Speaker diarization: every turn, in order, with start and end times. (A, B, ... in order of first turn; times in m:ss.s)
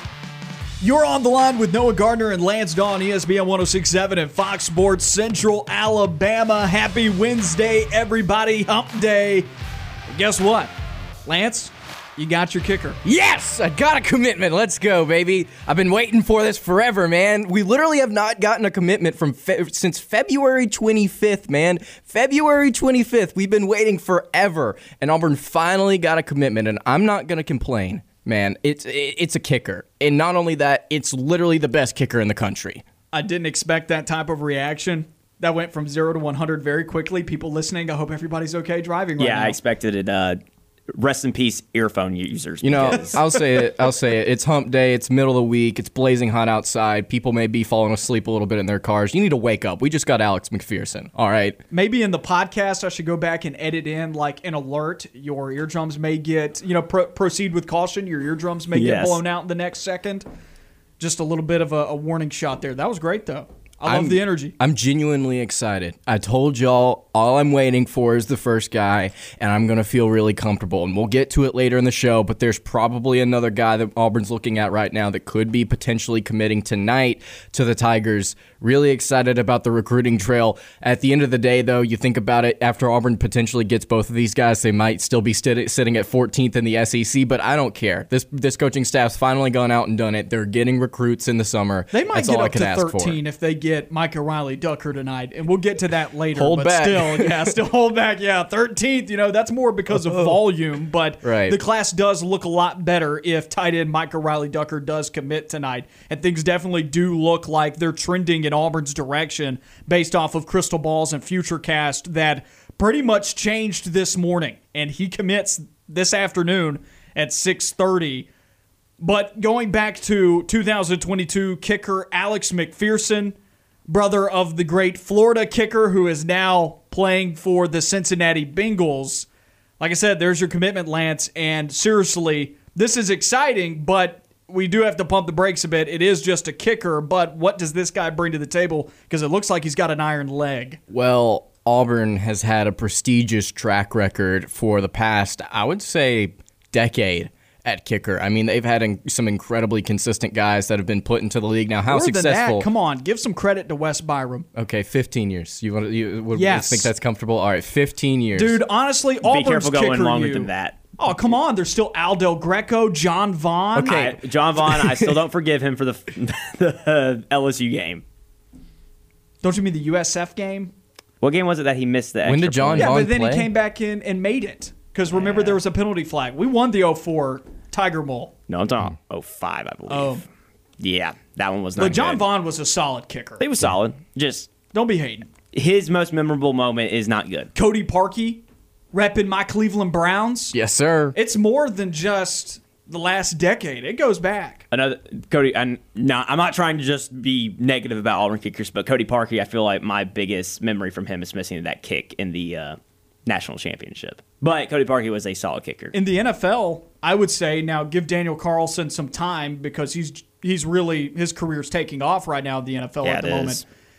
0:00.8-0:09.5 A
0:10.1-0:10.7 A
0:11.2-0:13.0 A
0:13.0-0:32.8 B
0:33.1-0:39.6 A
0:39.2-0:40.4 C
0:40.9-0:43.2 C
0:42.6-0:51.6 B
0:51.7-1:00.2 A
0:58.7-0:59.2 C
1:01.0-1:04.6 A
1:03.8-1:33.2 B
1:31.9-1:58.3 A
1:36.3-1:37.5 B
1:39.9-1:40.4 B
1:41.2-1:41.6 B
1:59.0-2:03.4 A
2:03.9-2:09.3 A
2:09.8-2:20.8 A
2:20.9-2:32.6 B
2:31.9-2:34.5 A
2:34.5-2:38.6 B
2:36.3-2:36.9 A
2:38.4-2:44.1 A
2:39.2-2:41.0 C
2:43.7-2:45.1 B
2:43.8-2:48.0 C
2:49.4-2:50.7 A
2:51.2-2:52.9 C
2:52.2-2:53.5 B
2:52.7-2:58.3 A
2:58.5-3:00.2 C
2:59.9-3:00.2 A
3:00.8-3:02.2 C
3:01.8-3:03.4 A
3:03.4-3:04.5 C
3:04.7-3:05.3 A
3:05.5-3:07.5 C
3:07.5-3:08.4 A
3:08.9-3:10.6 A
3:10.5-3:11.2 B
3:11.1-3:14.7 A
3:14.7-3:25.9 C
3:25.9-3:33.6 A
3:33.0-3:33.6 C